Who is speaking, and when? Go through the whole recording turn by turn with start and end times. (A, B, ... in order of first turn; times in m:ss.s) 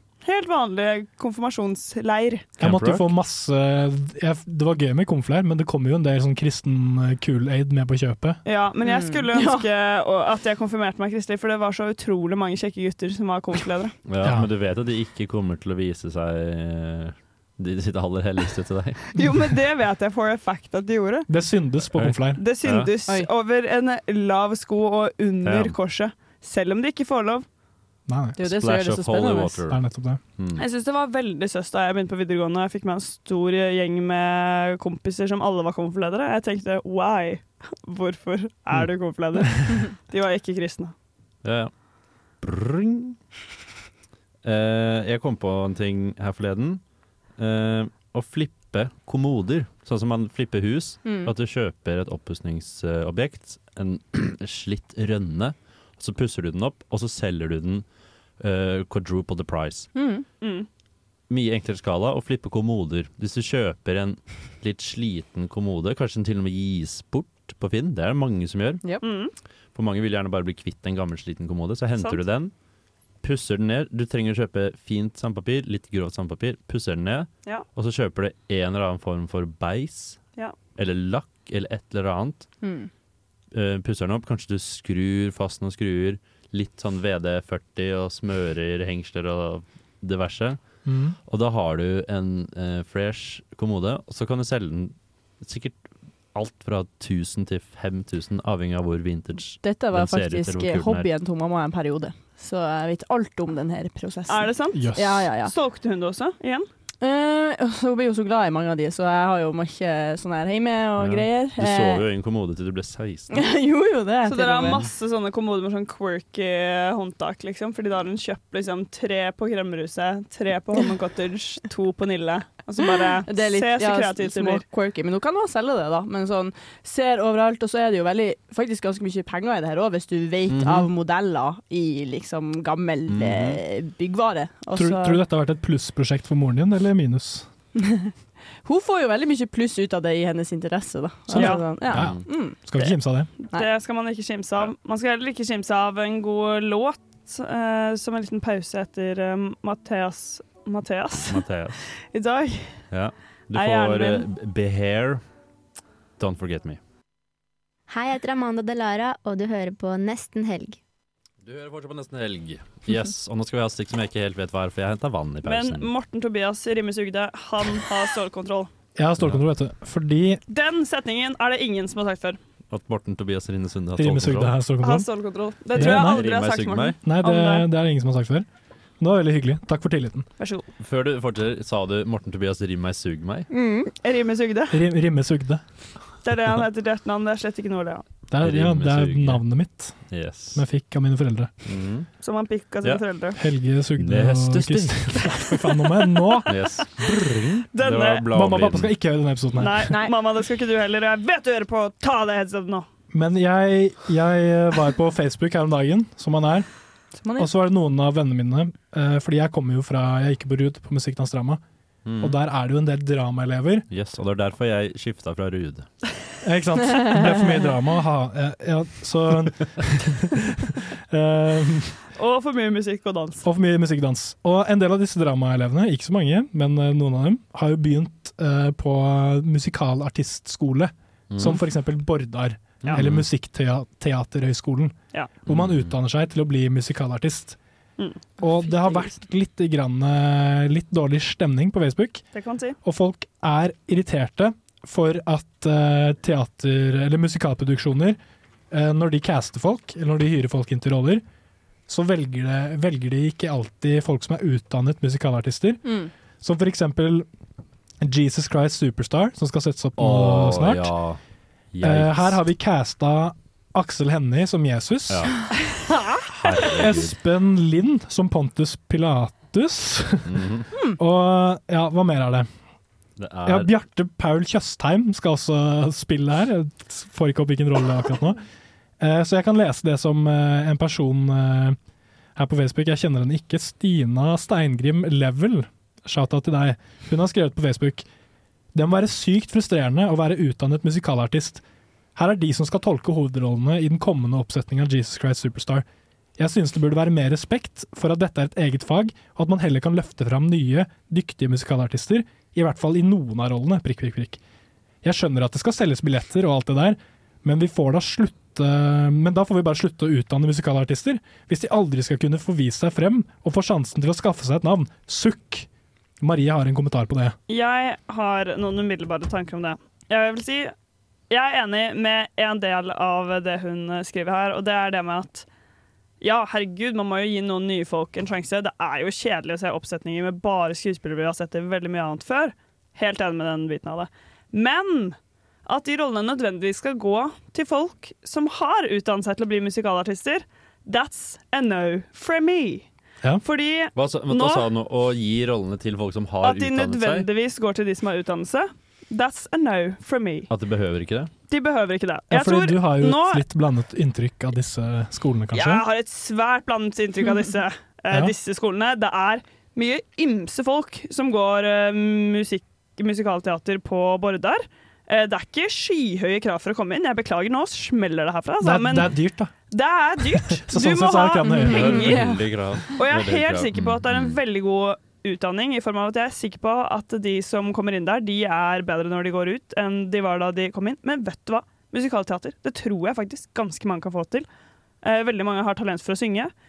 0:00.2-0:02.4 A
0:02.6-0:03.1 B
0:02.6-0:08.4 C
0:08.4-0:13.9 A
0:08.8-0:09.6 D
0:14.0-0:19.0 B
0:14.2-0:14.5 C
0:19.2-0:21.3 A
0:21.3-0:22.4 C
0:21.9-0:22.9 B
0:22.4-0:27.4 A
0:25.4-0:25.7 B
0:28.1-0:28.4 C
0:28.4-0:29.6 D
0:28.4-0:29.8 B
0:29.7-0:30.2 C
0:30.4-0:30.6 B
0:30.6-0:40.9 A
0:41.4-0:41.7 B
0:42.4-0:43.2 B
0:44.4-0:46.8 B
0:47.4-0:57.8 B
0:51.0-0:51.3 D
0:58.4-0:59.9 B
0:59.9-1:00.2 D
1:00.4-1:00.7 A
1:01.3-1:08.8 B
1:09.0-1:09.3 A
1:09.7-1:12.5 B
1:13.2-1:20.2 B
1:20.8-1:22.5 B
1:22.6-1:22.9 D
1:23.5-1:30.6 B
1:30.8-1:31.2 C
1:31.3-1:35.8 B
1:36.3-1:41.1 B
1:39.6-1:45.5 D
1:44.3-1:46.7 A
1:44.7-1:45.3 C
1:47.0-1:52.0 D
1:51.0-1:53.3 B
1:53.3-1:54.8 D
1:54.2-2:04.6 A
2:03.2-2:15.2 D
2:10.5-2:10.9 B
2:13.1-2:13.6 B
2:14.7-2:17.5 C
2:18.6-2:22.9 D
2:21.3-2:23.3 C
2:21.3-2:21.6 A
2:21.9-2:22.2 B
2:23.4-2:31.4 A
2:31.3-2:31.9 B
2:32.1-2:32.8 A
2:32.9-2:35.2 B
2:33.5-2:34.2 A
2:36.2-2:36.8 B
2:37.9-2:40.8 E
2:41.4-2:45.9 B
2:45.4-2:48.7 A
2:49.0-2:50.4 C
2:49.2-2:49.4 B
2:50.5-2:52.4 A
2:52.7-2:54.5 B
2:54.0-2:55.1 C
2:54.8-2:57.7 A
2:55.7-2:56.2 C
2:55.7-2:57.0 B
2:57.0-2:58.4 C
2:59.0-3:00.3 C
3:00.4-3:00.6 A
3:00.8-3:03.5 B
3:03.5-3:03.9 D
3:04.0-3:04.8 A
3:04.7-3:05.6 C
3:06.2-3:08.0 A
3:08.3-3:11.5 C
3:08.4-3:09.4 B
3:10.1-3:10.6 B
3:11.6-3:12.1 B
3:12.2-3:13.4 A
3:13.4-3:16.5 C
3:14.0-3:15.3 B
3:16.5-3:18.9 B
3:17.7-3:18.3 A
3:18.3-3:19.9 C
3:19.6-3:22.8 A
3:19.9-3:20.1 D
3:23.1-3:26.7 C
3:27.2-3:27.5 D
3:27.4-3:31.6 C
3:32.0-3:32.4 B
3:32.2-3:33.8 C
3:33.9-3:35.9 B
3:36.4-3:42.0 C
3:42.2-3:43.4 A
3:43.4-3:54.9 C
3:51.3-3:51.6 B
3:52.8-3:53.2 B
3:55.4-3:57.6 C
3:55.5-3:55.9 B
3:58.4-4:02.2 C
4:02.3-4:02.8 A
4:02.8-4:08.2 C
4:08.7-4:11.2 C
4:11.9-4:15.8 C
4:15.8-4:16.1 D
4:16.4-4:17.2 C
4:18.0-4:20.9 C
4:20.0-4:21.2 B
4:21.7-4:22.4 B
4:21.8-4:25.3 C
4:26.4-4:27.1 B
4:26.8-4:30.4 C
4:30.3-4:30.7 B
4:31.0-4:32.5 C
4:33.2-4:33.7 B
4:33.4-4:38.4 C
4:39.0-4:41.8 C
4:42.4-4:48.0 C
4:48.7-4:51.6 C
4:52.2-4:55.8 C
4:56.4-5:04.4 C
5:05.0-5:15.7 C
5:16.2-5:17.4 C
5:17.5-5:20.7 A
5:21.3-5:25.5 A
5:26.2-5:42.9 A
5:43.4-5:44.7 A
5:43.9-5:47.3 B
5:46.4-5:50.5 A
5:50.5-5:51.3 B
5:51.5-5:53.4 A
5:52.3-5:55.8 C
5:55.5-6:09.1 A
6:08.6-6:09.5 C
6:09.7-6:12.3 A
6:10.4-6:12.1 C
6:11.4-6:12.4 D
6:11.7-6:14.4 B
6:12.9-6:24.5 A
6:25.0-6:26.5 A